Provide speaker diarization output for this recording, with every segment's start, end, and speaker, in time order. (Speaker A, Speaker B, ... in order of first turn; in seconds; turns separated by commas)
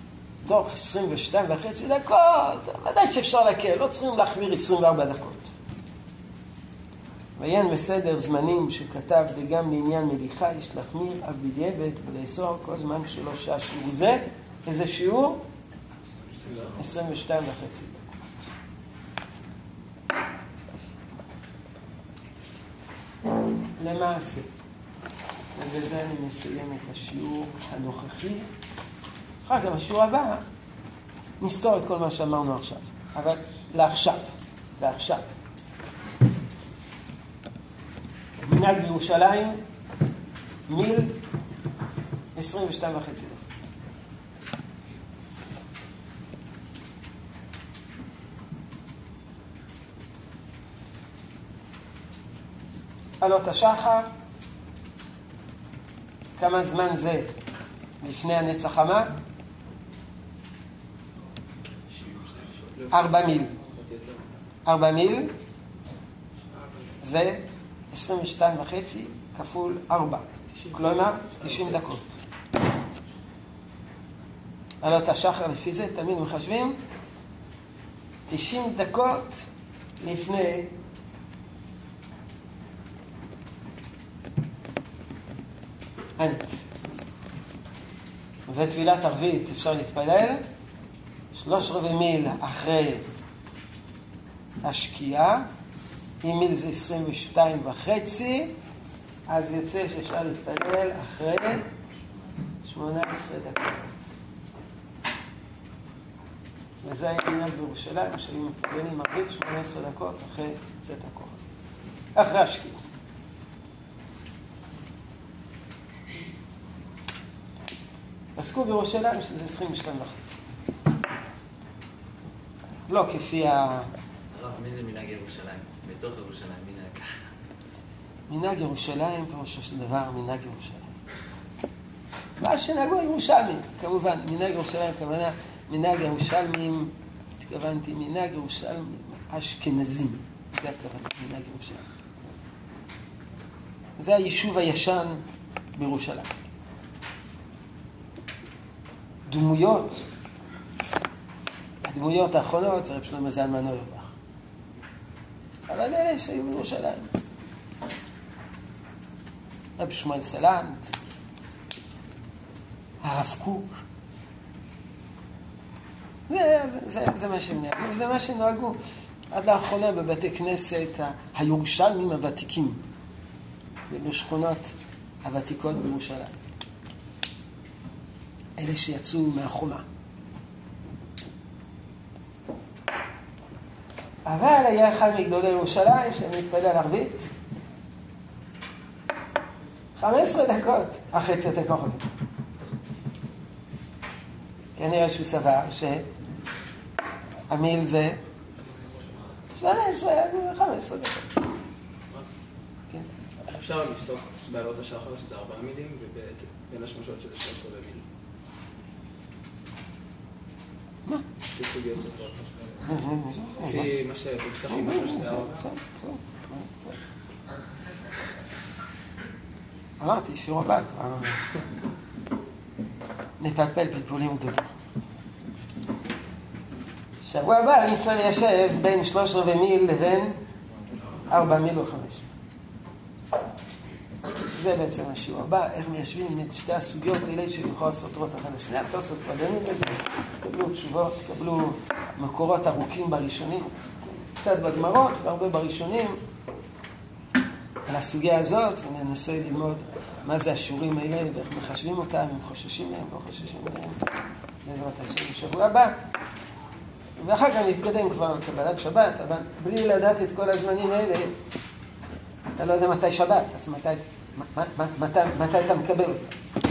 Speaker A: 0.4-5.5, Speaker A: 7.4-15.4, Speaker B: 16.3-16.8, Speaker A: 16.8-18.0, Speaker A: 23.8-24.5, Speaker A: 25.6-28.5, Speaker A: 29.4-30.4, Speaker A: 31.4-35.3, Speaker A: 38.5-39.6, Speaker A: 40.7-41.2, Speaker A: 42.4-43.5, Speaker A: 53.2-54.1, Speaker A: 56.4-57.3, Speaker A: 58.0-59.1, Speaker B: 62.7-64.3, Speaker A: 62.9-63.5, Speaker A: 64.7-65.3, Speaker A: 67.0-72.1, Speaker B: 70.6-71.9, Speaker A: 74.8-76.8, Speaker A: 78.3-79.4, Speaker A: 80.0-80.7, Speaker A: 86.2-86.6, Speaker A: 88.5-90.4, Speaker A: 91.3-93.0, Speaker A: 94.6-95.5, Speaker A: 96.2-98.5, Speaker A: 99.3-101.6, Speaker A: 102.7-104.0, Speaker A: 106.8-111.4, Speaker A: 112.2-112.8, Speaker A: 118.4-120.3, Speaker A: 122.9-123.9, Speaker C: 124.3-127.0, Speaker A: 128.3-130.9, Speaker A: 132.4-141.8, Speaker A: 144.0-145.2, Speaker A: 145.8-146.5, Speaker A: 149.3-150.1, Speaker A: 151.8-154.1, Speaker A: 155.7-157.1, Speaker A: 159.8-160.9, Speaker A: 163.0-163.8, Speaker A: 166.3-168.8, Speaker A: 169.3-172.8, Speaker A: 173.9-174.7, Speaker A: 175.2-176.4, Speaker A: 178.6-179.8, Speaker A: 184.3-187.3, Speaker A: 190.0-192.1, Speaker A: 194.8-196.1, Speaker A: 197.5-198.2, Speaker A: 199.6-201.3, Speaker B: 203.4-208.0, Speaker B: 211.5-212.8, Speaker A: 212.9-213.9, Speaker B: 213.6-215.7, Speaker A: 214.7-217.0, Speaker A: 220.0-221.5, Speaker A: 223.4-224.7, Speaker A: 227.2-230.4, Speaker A: 231.3-232.2, Speaker A: 234.5-246.2, Speaker A: 247.9-254.0, Speaker A: 254.7-255.9, Speaker A: 257.2-261.3, Speaker A: 262.6-266.3